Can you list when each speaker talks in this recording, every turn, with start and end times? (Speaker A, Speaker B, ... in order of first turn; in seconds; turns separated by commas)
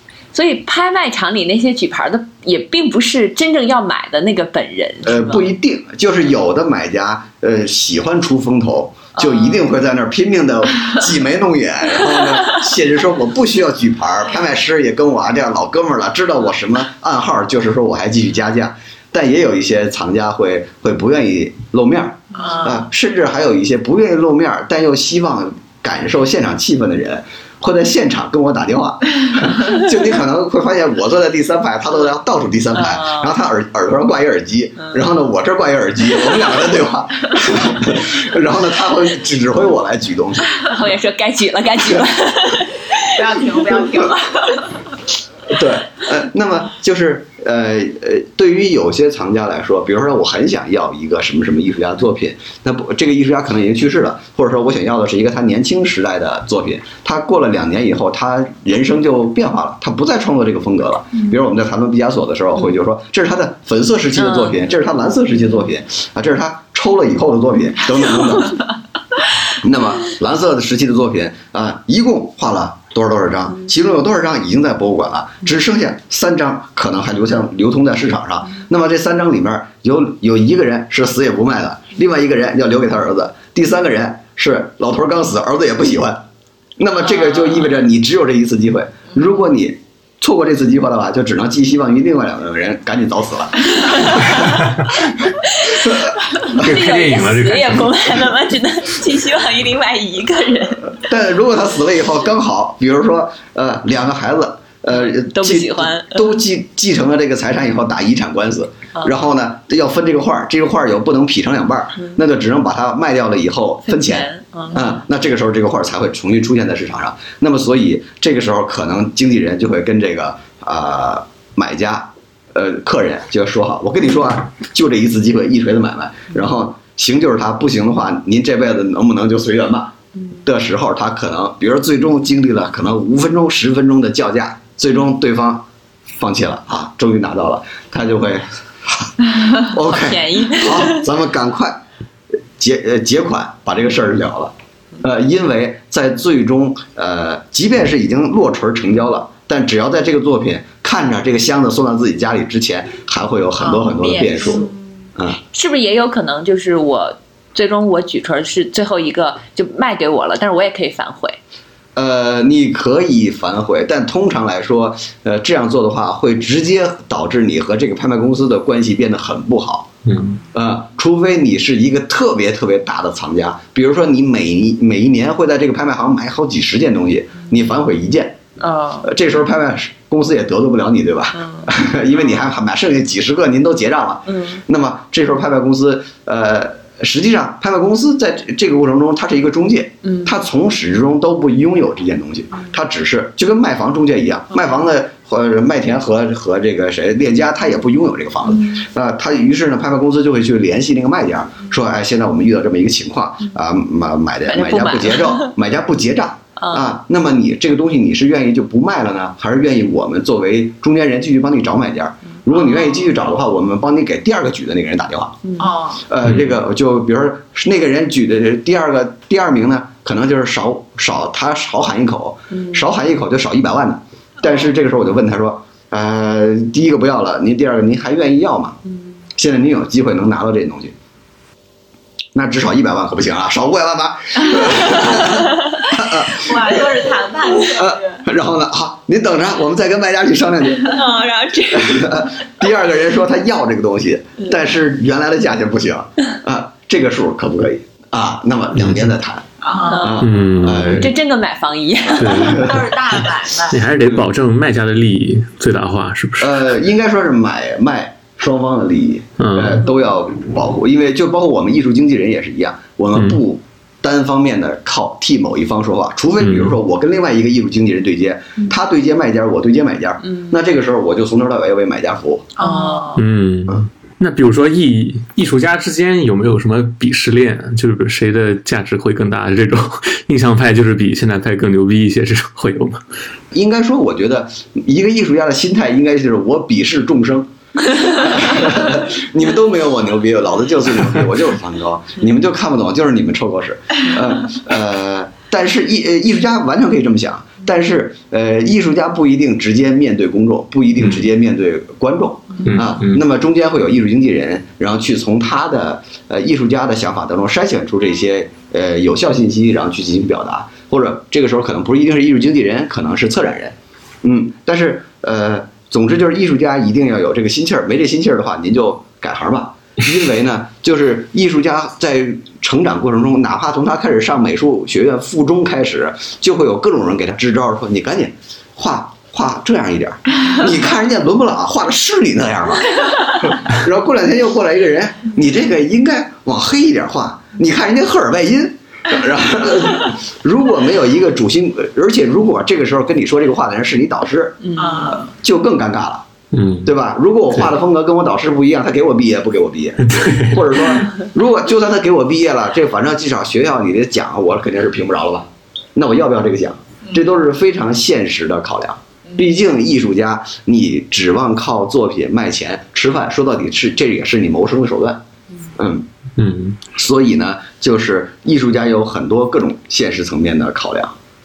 Speaker A: 0.3-5.5, Speaker B: 5.0-40.6, Speaker A: 9.2-9.7, Speaker C: 22.4-22.8, Speaker A: 32.8-33.3, Speaker A: 40.7-43.0, Speaker C: 43.1-44.7, Speaker B: 45.5-68.6, Speaker A: 64.2-64.6, Speaker B: 69.6-86.2, Speaker B: 86.8-94.5, Speaker B: 95.7-96.7, Speaker D: 96.5-98.2, Speaker A: 96.5-100.9, Speaker B: 101.0-141.8, Speaker A: 105.0-106.3, Speaker A: 113.9-114.9, Speaker A: 139.8-141.1, Speaker B: 142.6-154.7, Speaker C: 153.6-154.7, Speaker A: 155.5-161.4, Speaker B: 161.9-169.9, Speaker D: 170.1-170.4, Speaker B: 170.5-178.4, Speaker A: 178.6-179.1, Speaker B: 179.0-215.4, Speaker A: 181.4-181.7, Speaker A: 184.3-184.6, Speaker A: 190.0-190.4, Speaker A: 204.5-205.5, Speaker A: 206.6-206.9, Speaker C: 215.6-216.1, Speaker B: 216.1-228.8, Speaker D: 216.2-216.5, Speaker A: 222.5-222.9, Speaker B: 229.4-230.9, Speaker B: 232.3-236.9, Speaker C: 236.3-238.2, Speaker B: 237.7-241.0, Speaker A: 240.7-242.3, Speaker B: 241.7-249.5, Speaker D: 248.8-249.1, Speaker C: 249.6-250.1, Speaker A: 249.8-252.7, Speaker B: 250.0-251.1, Speaker D: 250.2-251.1, Speaker D: 252.2-256.7, Speaker B: 252.3-252.9, Speaker C: 252.5-253.9, Speaker B: 254.0-254.2, Speaker B: 256.4-272.5, Speaker D: 259.4-259.8, Speaker D: 266.4-266.8, Speaker C: 272.6-273.2, Speaker A: 272.6-273.2, Speaker D: 273.2-283.0, Speaker B: 283.5-346.2, Speaker D: 302.7-303.2, Speaker A: 344.6-345.2, Speaker C: 344.8-345.3, Speaker D: 346.5-346.9, Speaker B: 346.8-365.2, Speaker D: 350.1-350.6, Speaker B: 365.8-366.1, Speaker D: 366.4-366.8, Speaker B: 366.9-371.2